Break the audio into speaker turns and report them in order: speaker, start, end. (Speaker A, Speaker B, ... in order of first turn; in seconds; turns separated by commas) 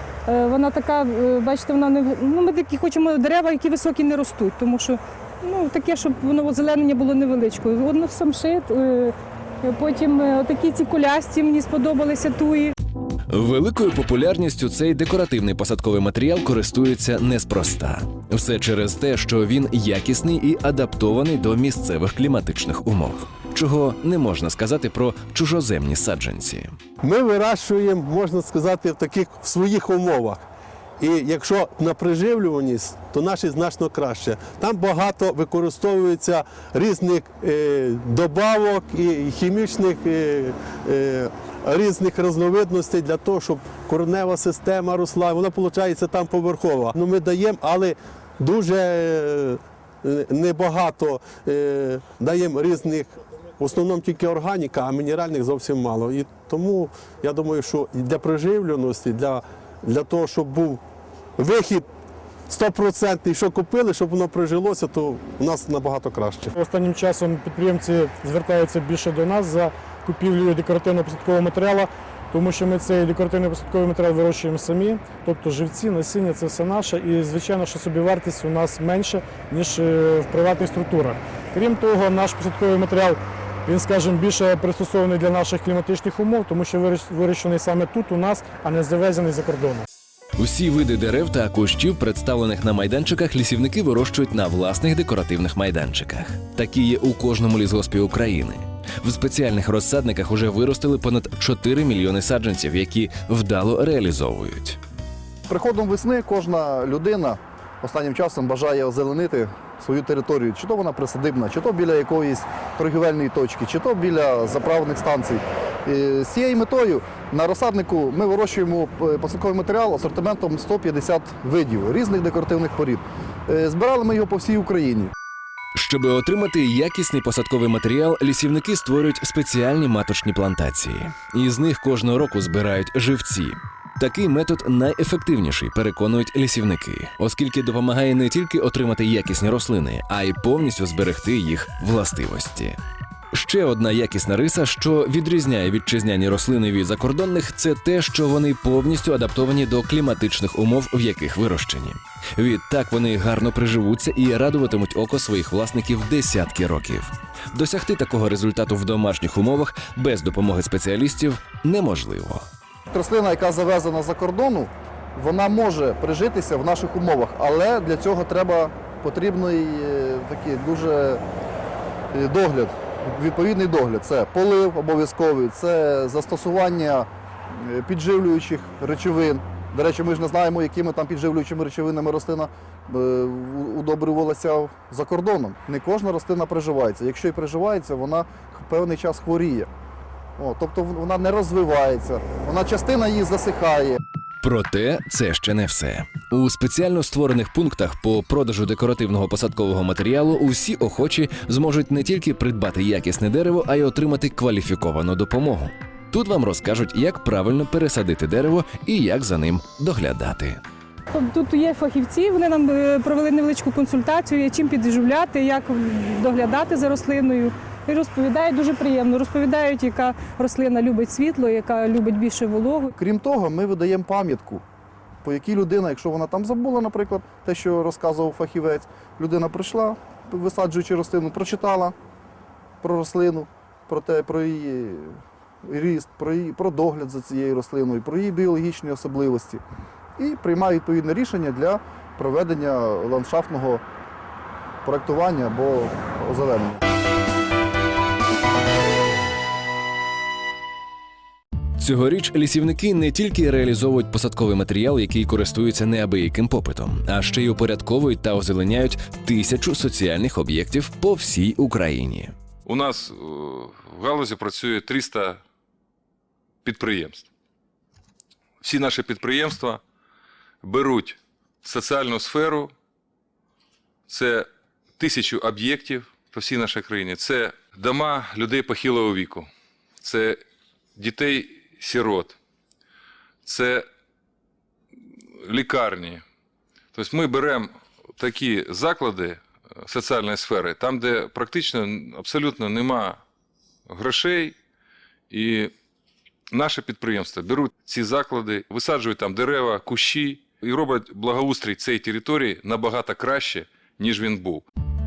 Speaker A: 0.3-12.7, Speaker B: 13.3-26.7, Speaker C: 27.0-30.4, Speaker C: 31.0-60.8, Speaker C: 61.4-61.9, Speaker C: 62.5-66.5, Speaker D: 66.5-89.8, Speaker B: 90.4-104.8, Speaker E: 105.5-125.1, Speaker B: 125.8-142.8, Speaker B: 143.3-162.4, Speaker E: 162.9-171.2, Speaker E: 172.1-189.7, Speaker E: 190.4-194.0, Speaker B: 194.4-210.6, Speaker A: 211.1-222.9, Speaker E: 223.0-224.6, Speaker E: 225.2-231.9, Speaker E: 232.8-239.6, Speaker E: 240.2-243.8, Speaker E: 244.8-246.8, Speaker B: 251.8-262.3, Speaker F: 262.7-265.4, Speaker F: 266.6-267.3, Speaker F: 268.6-269.8, Speaker F: 270.6-272.7, Speaker F: 274.1-274.5, Speaker F: 275.0-279.5, Speaker F: 280.0-280.4, Speaker F: 281.0-282.4, Speaker F: 283.4-283.8, Speaker F: 285.4-286.2, Speaker F: 286.9-293.2, Speaker F: 293.9-294.6, Speaker F: 295.3-295.7, Speaker F: 296.5-304.6